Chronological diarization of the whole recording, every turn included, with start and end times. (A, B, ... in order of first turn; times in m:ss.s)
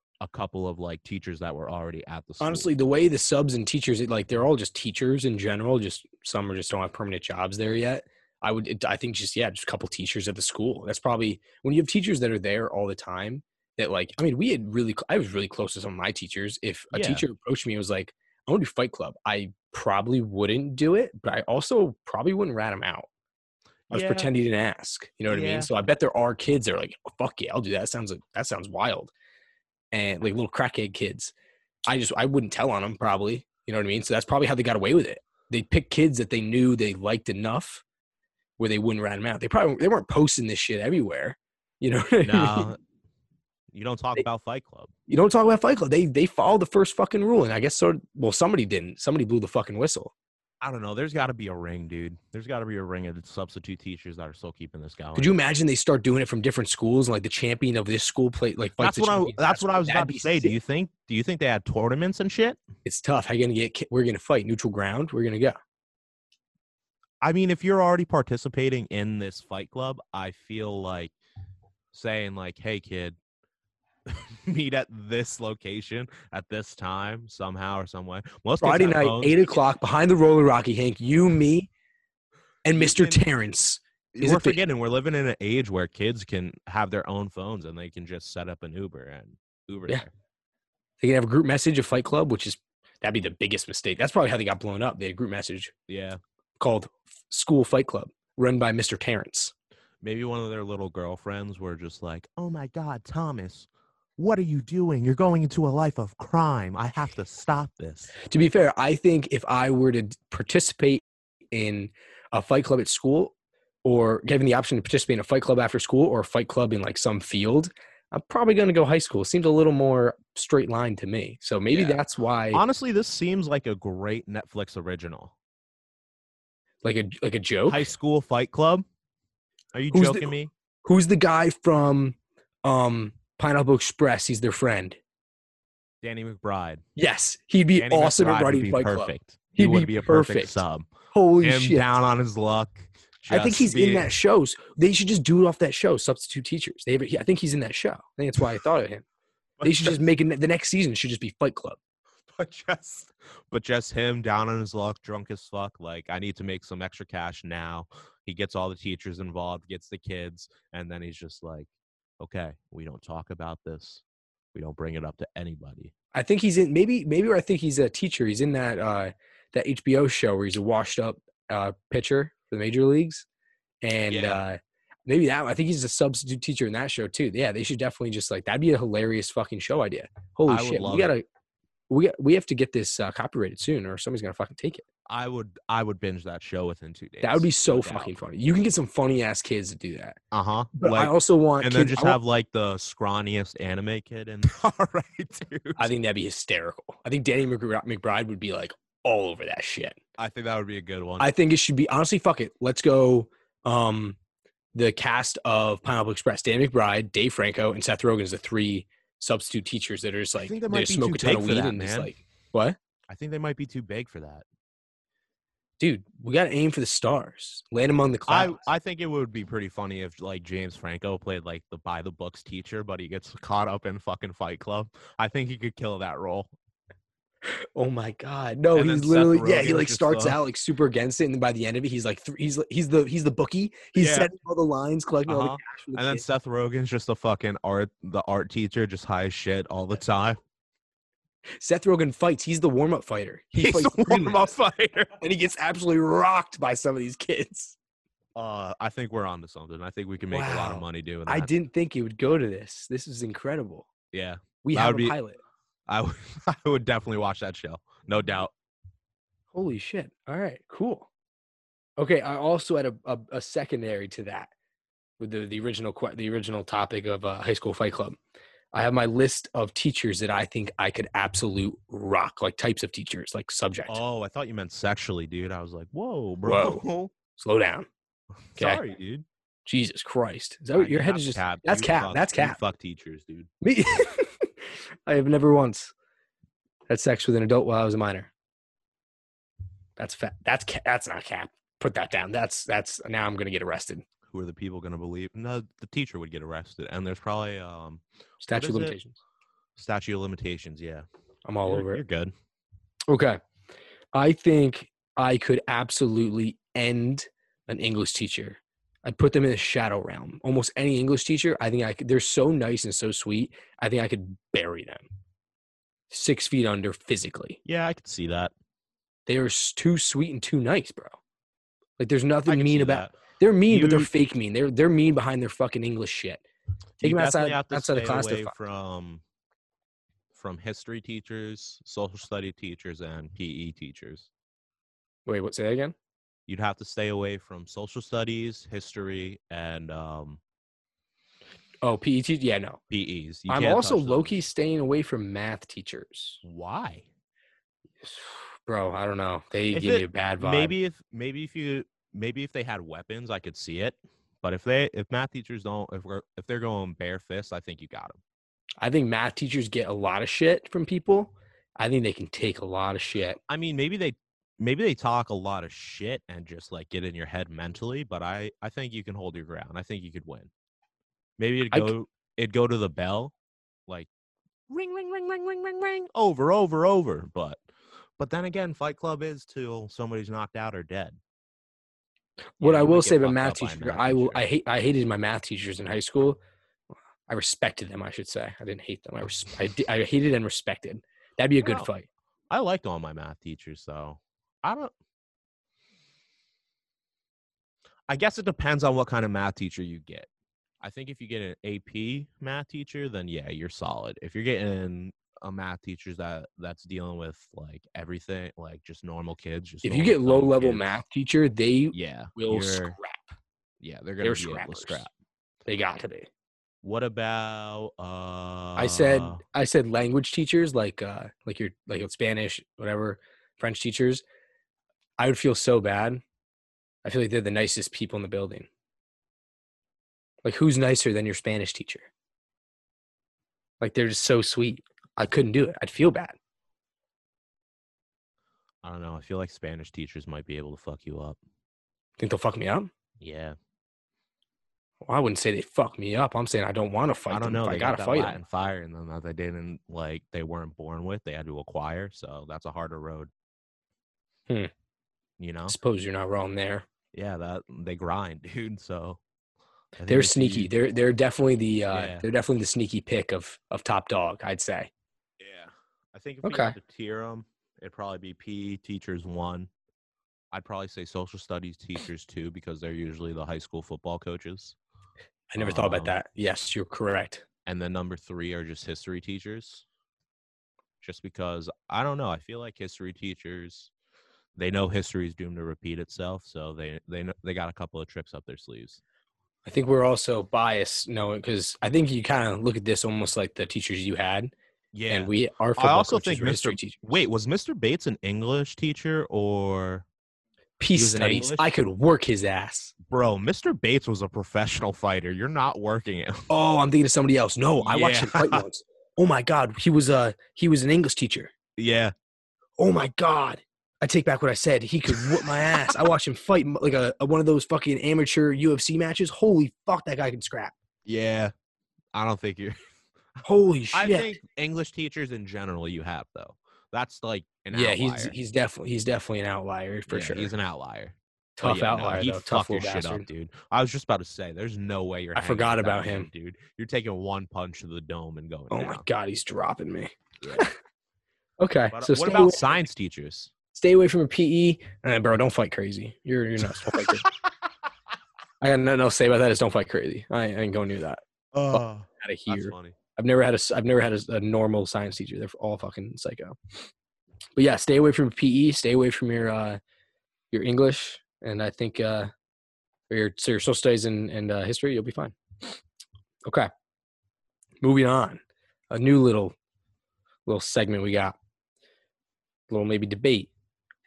0:00.2-0:02.7 A
0:02.4-0:23.1 B
0:16.9-0:17.2 A
0:23.9-0:24.3 A
0:23.9-0:29.1 B
0:25.3-0:25.7 A
0:29.9-0:31.3 B
0:31.9-0:37.8 B
0:38.6-0:42.7 B
0:42.2-0:42.8 A
0:43.7-0:44.9 A
0:45.1-0:50.1 B
0:50.6-0:55.3 A
0:55.2-1:00.5 B
0:58.8-1:02.6 A
1:02.8-1:05.6 B
1:07.2-1:11.1 A
1:11.9-1:13.2 A
1:14.1-1:19.5 A
1:18.6-1:21.7 B
1:22.6-1:24.6 B
1:22.8-1:23.2 A
1:24.1-1:30.1 A
1:31.0-1:35.7 B
1:35.9-1:36.2 A
1:36.6-1:39.5 B
1:40.0-1:48.1 A
1:48.3-2:02.6 B
2:01.7-2:02.0 A
2:02.5-2:05.3 A
2:06.8-2:07.9 B
2:07.7-2:08.8 A
2:09.7-2:10.5 A
2:09.9-2:10.3 B
2:10.8-2:15.0 B
2:16.0-2:16.8 A
2:17.0-2:21.8 B
2:17.8-2:20.9 A
2:21.4-2:24.1 A
2:23.3-2:29.0 B
2:29.6-2:30.0 A
2:29.6-2:31.8 B
2:32.3-2:41.7 A
2:42.2-2:44.0 A
2:44.5-2:45.9 A
2:46.1-2:53.2 B
2:53.8-3:01.2 B
2:54.1-2:54.4 A
3:00.5-3:01.1 A
3:01.9-3:04.8 B
3:05.1-3:08.1 A
3:07.2-3:10.2 B
3:10.3-3:15.9 A
3:10.7-3:12.2 B
3:15.8-3:20.0 B
3:20.2-3:21.3 A
3:21.2-3:24.2 B
3:24.7-3:32.8 B
3:30.4-3:32.2 A
3:33.1-3:34.4 A
3:35.8-3:38.6 B
3:38.3-3:46.5 A
3:47.5-3:56.2 B
3:48.7-3:50.4 A
3:53.9-3:54.3 A
3:55.3-4:00.4 A
4:01.6-4:04.6 B
4:03.6-4:05.1 A
4:05.2-4:07.8 B
4:08.3-4:11.5 A
4:10.3-4:13.9 B
4:14.1-4:15.2 A
4:14.6-4:15.4 B
4:15.9-4:18.5 A
4:19.5-4:21.1 B
4:22.0-4:24.5 B
4:25.2-4:28.2 B
4:28.7-4:34.0 B
4:33.9-4:37.1 A
4:36.4-4:36.8 B
4:37.4-4:37.9 B
4:38.5-4:39.2 A
4:39.6-4:42.6 B
4:40.7-4:43.5 A
4:43.6-4:44.5 B
4:45.0-4:45.9 B
4:46.9-4:48.3 B
4:50.0-4:54.0 B
4:54.3-4:58.9 A
4:58.4-4:59.2 B
4:59.8-5:01.0 A
5:01.4-5:02.0 B
5:01.6-5:02.3 A
5:03.1-5:03.4 B
5:04.1-5:15.1 B
5:16.1-5:17.6 B
5:17.6-5:18.5 A
5:19.2-5:21.2 B
5:22.0-5:26.4 B
5:22.4-5:24.1 A
5:27.0-5:29.2 A
5:27.0-5:28.5 B
5:30.3-5:34.3 A
5:35.2-5:35.9 B
5:36.5-5:40.4 A
5:41.8-5:42.8 B
5:42.9-5:44.4 A
5:43.5-5:46.4 B
5:46.4-5:47.1 A
5:48.0-5:50.7 B
5:49.7-5:58.2 A
5:58.8-6:03.4 B
6:03.5-6:10.5 A
6:11.4-6:13.3 A
6:14.7-6:17.6 A
6:18.2-6:21.2 A
6:22.6-6:26.4 B
6:22.6-6:24.4 A
6:27.3-6:32.0 B
6:31.6-6:31.9 A
6:32.5-6:34.9 A
6:38.1-6:40.3 A
6:40.8-6:51.0 A
6:49.8-6:53.3 B
6:51.9-6:53.0 A
6:53.8-6:55.1 A
6:54.2-6:55.0 B
6:55.6-6:56.3 B
6:56.8-6:59.4 A
6:58.8-7:04.2 B
7:05.2-7:06.2 B
7:07.0-7:08.7 B
7:10.4-7:12.1 B
7:13.8-7:16.4 B
7:18.8-7:21.4 A
7:22.2-7:22.9 B
7:23.2-7:23.6 A
7:25.0-7:28.4 B
7:27.3-7:33.3 A
7:35.4-7:35.8 A
7:35.7-7:36.8 B
7:37.1-7:39.2 A
7:40.0-7:40.7 A
7:40.1-7:44.9 B
7:41.9-7:42.2 A
7:45.4-7:49.7 A
7:46.4-7:46.8 B
7:50.5-7:54.8 A
7:55.5-7:57.4 B
7:55.6-7:56.2 A
7:57.6-7:59.8 A
8:01.0-8:03.9 A
8:04.6-8:09.0 A
8:09.6-8:14.5 B
8:14.9-8:20.0 A
8:15.1-8:17.0 B
8:20.8-8:22.9 B
8:20.9-8:21.7 A
8:23.1-8:26.5 A
8:26.5-8:31.5 B
8:27.8-8:28.6 A
8:31.8-8:32.1 A
8:32.8-8:40.7 B
8:35.1-8:35.9 A
8:41.0-8:41.5 A
8:42.1-8:42.8 A
8:43.4-8:48.3 A
8:43.4-8:44.4 B
8:47.7-8:50.5 B
8:50.1-8:59.0 A
8:51.6-8:53.3 B
8:55.3-8:56.3 B
8:58.7-9:00.7 B
9:01.6-9:02.8 B
9:01.9-9:03.5 A
9:03.7-9:07.3 B
9:06.8-9:07.3 A
9:08.6-9:16.8 B
9:11.5-9:13.0 A
9:17.6-9:19.8 B
9:20.5-9:22.3 B
9:23.1-9:25.8 B
9:26.4-9:26.7 B
9:27.8-9:29.5 B
9:30.4-9:31.4 B
9:32.7-9:33.5 B